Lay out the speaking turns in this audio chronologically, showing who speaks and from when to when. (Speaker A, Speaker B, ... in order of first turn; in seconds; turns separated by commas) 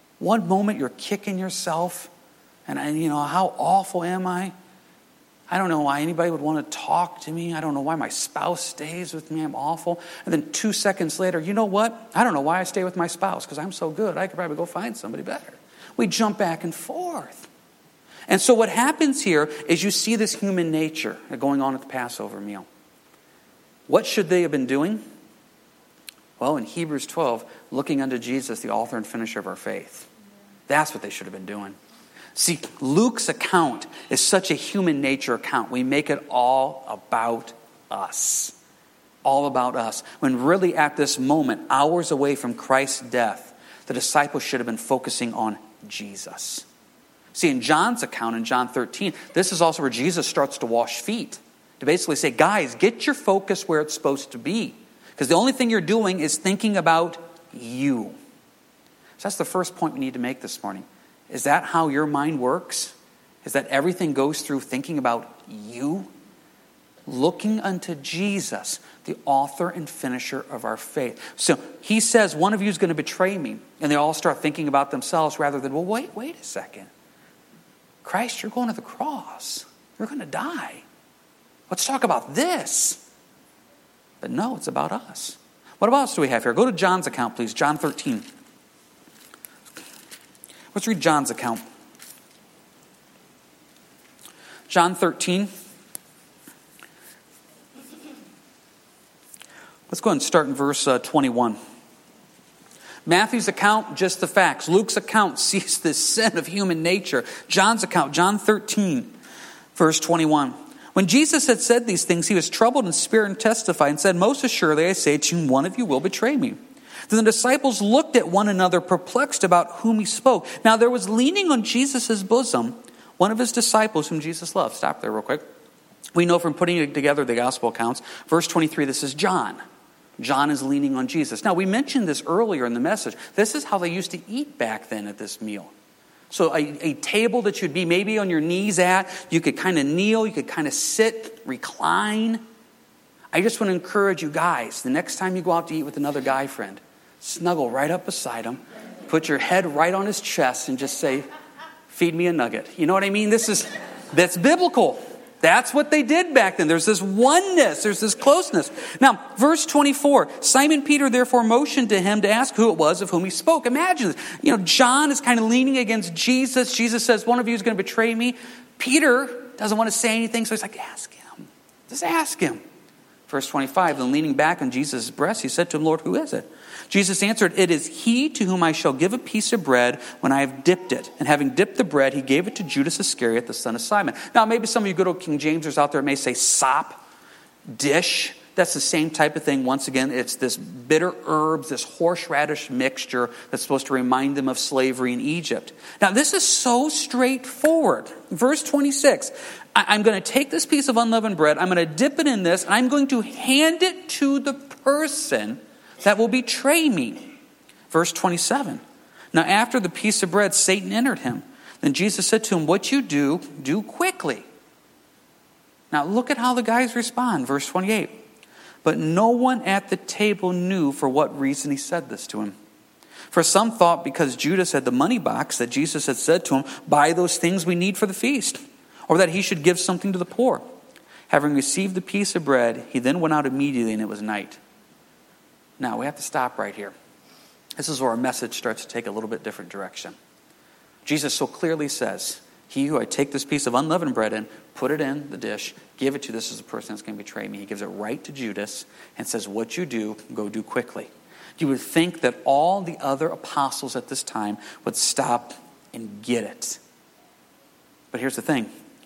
Speaker A: 0.2-2.1, Speaker A: 2.7-4.5, Speaker A: 5.5-17.5, Speaker A: 18.3-22.7, Speaker A: 23.9-25.0, Speaker A: 26.4-30.1, Speaker A: 30.7-31.8, Speaker A: 32.4-38.6, Speaker A: 39.2-46.7, Speaker A: 47.3-58.2, Speaker A: 59.2-66.1, Speaker A: 67.1-76.9, Speaker A: 78.0-80.8, Speaker A: 81.7-83.0, Speaker A: 84.2-88.2, Speaker A: 90.7-91.6, Speaker A: 94.7-95.5, Speaker A: 99.9-101.6, Speaker A: 103.1-109.1, Speaker A: 109.8-116.6, Speaker A: 117.1-125.4, Speaker A: 126.1-129.6, Speaker A: 130.2-135.7, Speaker A: 136.3-142.4, Speaker A: 143.3-151.2, Speaker A: 151.9-172.6, Speaker A: 173.3-187.0, Speaker A: 187.7-207.3, Speaker A: 207.9-208.8, Speaker A: 209.3-214.5, Speaker A: 215.9-218.2, Speaker A: 218.8-222.6, Speaker A: 223.3-230.6, Speaker A: 231.3-234.6, Speaker A: 235.8-236.9, Speaker A: 237.8-240.2, Speaker A: 241.1-256.8, Speaker A: 258.1-258.7